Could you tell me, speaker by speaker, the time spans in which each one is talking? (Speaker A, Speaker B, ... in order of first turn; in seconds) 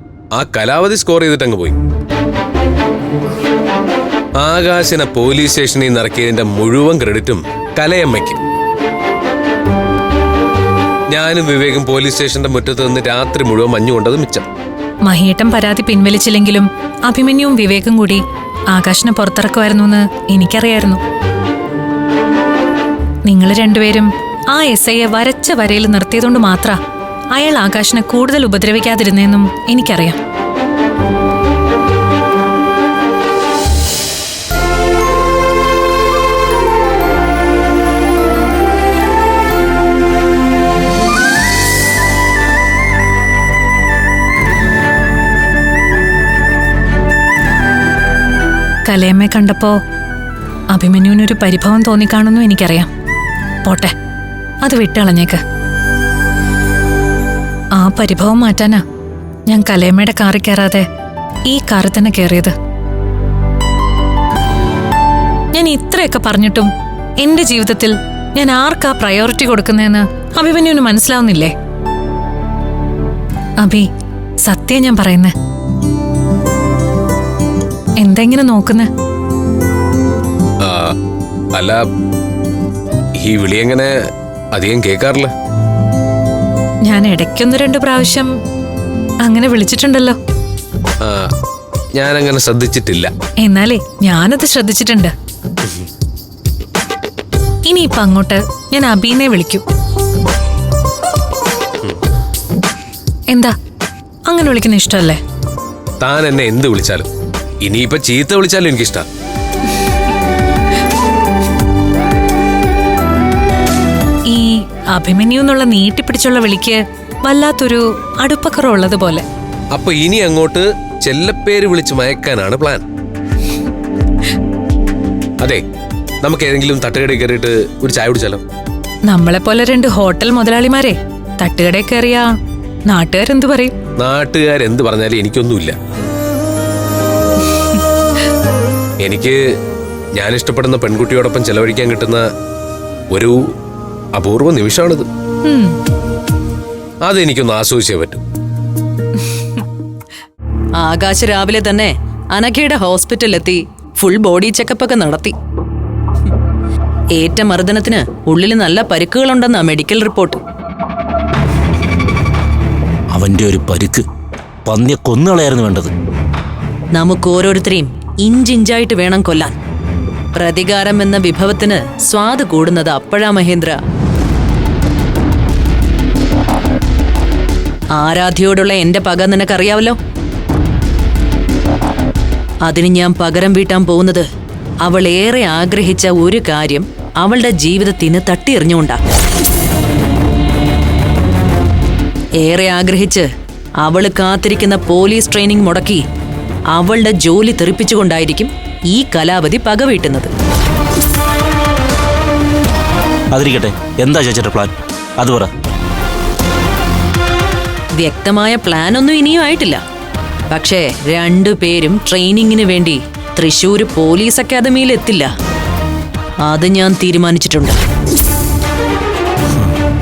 Speaker A: 0.4-1.8, 4.4-8.4, 11.1-14.5, 80.6-80.9, 81.5-81.8, 83.2-84.0, 84.5-85.3, 91.0-91.3, 92.0-93.1, 106.0-107.1, 107.6-109.1, 119.7-122.8, 126.2-128.4, 134.0-135.8, 139.0-139.4, 140.2-142.2, 143.1-143.4, 144.2-145.1, 147.1-148.2
Speaker B: 15.1-21.0, 23.3-26.8, 27.3-30.2, 48.9-49.8, 50.7-52.9, 53.6-53.9, 54.6-55.4, 57.8-58.8, 59.5-60.9, 61.5-62.5, 65.5-66.7, 67.2-71.5, 73.6-73.9, 74.4-75.3, 78.0-78.9, 86.9-88.3, 89.2-90.2, 93.4-95.1, 97.7-99.6, 104.3-105.2, 114.3-119.2, 129.1-132.3, 132.9-133.7, 145.4-145.8
Speaker C: 150.8-155.4, 157.2-160.4, 166.9-169.6, 170.3-173.8, 177.9-180.0, 182.7-184.2, 184.8-189.0, 192.4-193.3, 193.8-196.0, 196.7-200.3, 208.0-209.8, 210.5-215.3, 216.4-217.8
Speaker D: 163.1-164.1, 164.7-165.9, 203.3-205.5